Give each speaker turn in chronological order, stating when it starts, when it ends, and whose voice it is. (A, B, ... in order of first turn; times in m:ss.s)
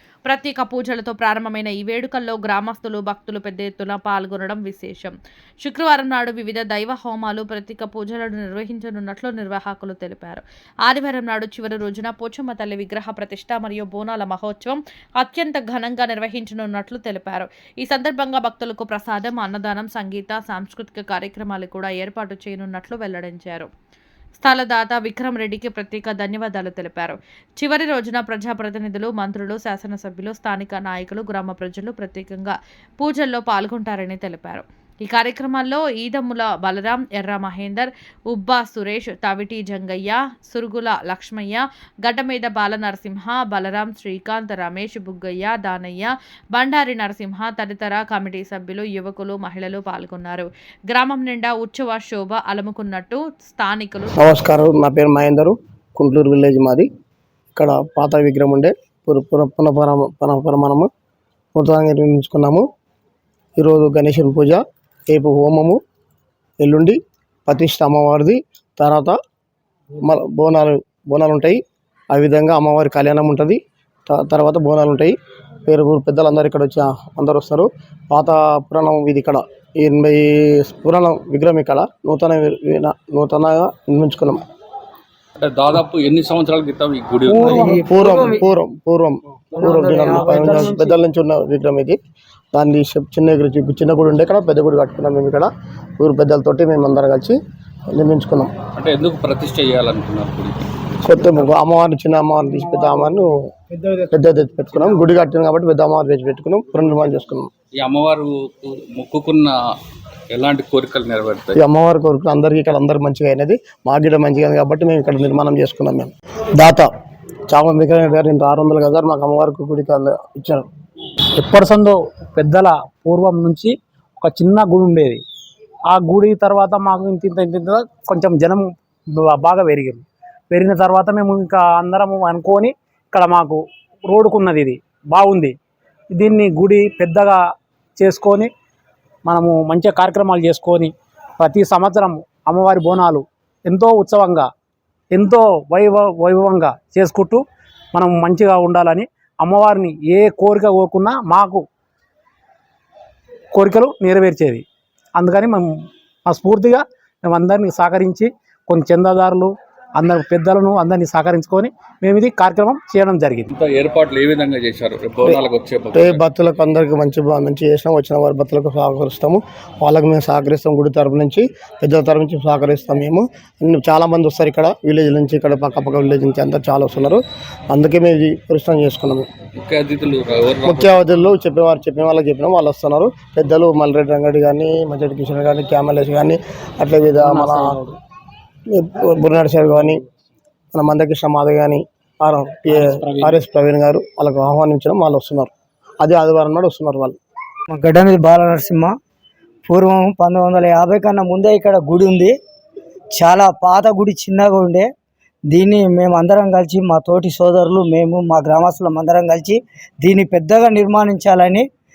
0:00.2-0:23.7 A
0:24.4-0:54.4 A
0:54.1-0:56.8 B
0:57.5-1:00.9 B
1:01.6-1:02.6 B
1:03.6-1:05.8 B
1:06.6-1:09.2 B
1:10.0-1:11.6 B
1:12.1-1:15.1 B
1:15.7-1:24.4 B
1:25.4-1:27.8 C
1:27.3-1:28.4 D
1:27.7-1:32.0 B
1:29.6-1:31.0 D
1:32.5-1:37.4 B
1:37.9-1:38.5 B
1:38.8-1:41.2 C
1:41.0-1:43.4 B
1:44.1-1:47.5 B
1:47.8-1:49.6 C
1:50.3-1:51.6 C
1:51.5-1:56.9 B
1:57.5-2:00.7 B
2:01.4-2:05.2 E
2:05.9-2:15.5 E
2:16.1-2:17.4 E
2:18.0-2:18.5 E
2:19.2-2:24.5 E
2:25.1-2:31.6 E
2:33.5-2:34.6 E
2:35.1-2:35.7 E
2:36.2-2:43.5 E
2:43.5-2:46.2 C
2:45.9-2:59.3 B
2:59.6-3:01.1 C
3:00.6-3:07.8 B
3:07.2-3:07.9 E
3:08.7-3:10.0 B
3:10.7-3:17.2 B
3:12.7-3:13.4 E
3:17.7-3:18.9 D
3:19.7-3:22.3 D
3:23.1-3:24.9 D
3:25.5-3:31.6 D